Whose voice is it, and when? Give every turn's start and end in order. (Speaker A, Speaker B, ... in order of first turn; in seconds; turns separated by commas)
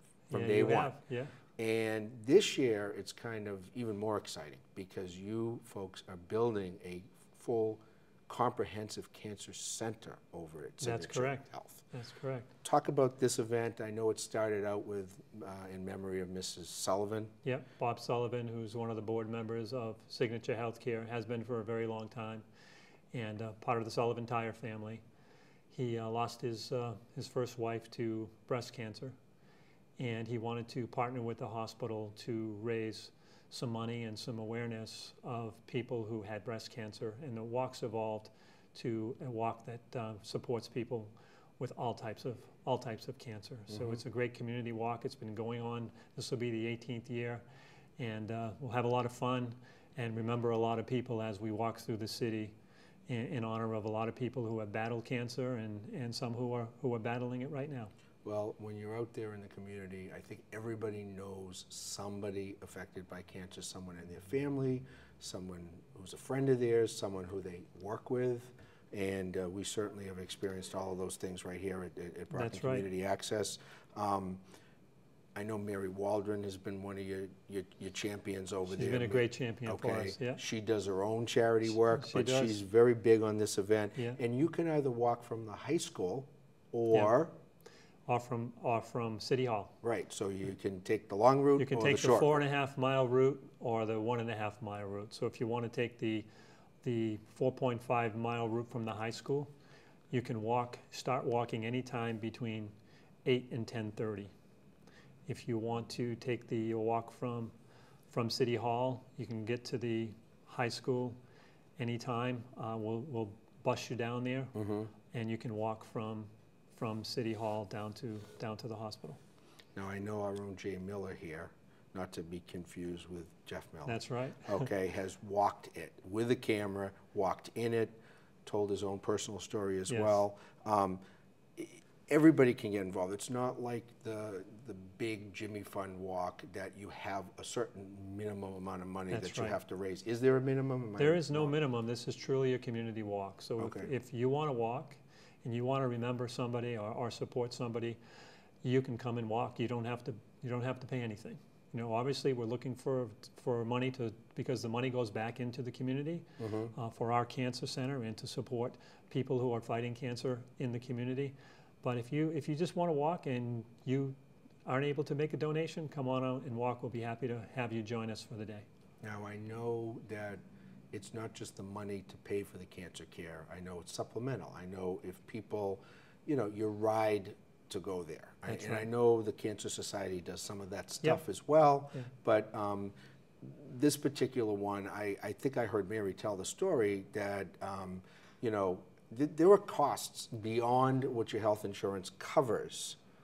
Speaker A: 0.3-1.3, Speaker B: 0.3-0.9, Speaker B: 1.6-11.8, Speaker A: 10.8-12.5, Speaker B: 12.6-17.3, Speaker A: 17.4-22.4, Speaker A: 23.1-25.0, Speaker A: 25.7-29.1, Speaker A: 30.0-47.4, Speaker B: 43.7-44.0, Speaker A: 48.0-52.5, Speaker A: 53.1-57.9, Speaker B: 58.2-74.4, Speaker A: 72.3-72.8, Speaker B: 75.3-87.3, Speaker A: 78.7-80.4, Speaker A: 81.8-82.6, Speaker A: 88.1-89.7, Speaker B: 89.8-92.3, Speaker A: 91.6-96.3, Speaker A: 96.8-99.5, Speaker A: 100.1-102.7, Speaker A: 103.2-104.3, Speaker A: 105.3-107.5, Speaker A: 108.1-111.2, Speaker A: 111.8-114.5, Speaker B: 114.5-114.9, Speaker A: 115.1-119.2, Speaker B: 119.7-131.0, Speaker A: 123.8-124.7, Speaker A: 129.9-130.2, Speaker B: 131.6-141.5, Speaker A: 139.1-139.6, Speaker A: 141.0-148.0, Speaker B: 143.6-143.9, Speaker A: 148.6-168.7, Speaker B: 156.4-156.7, Speaker B: 169.0-170.4, Speaker B: 170.9-193.0, Speaker A: 178.5-178.8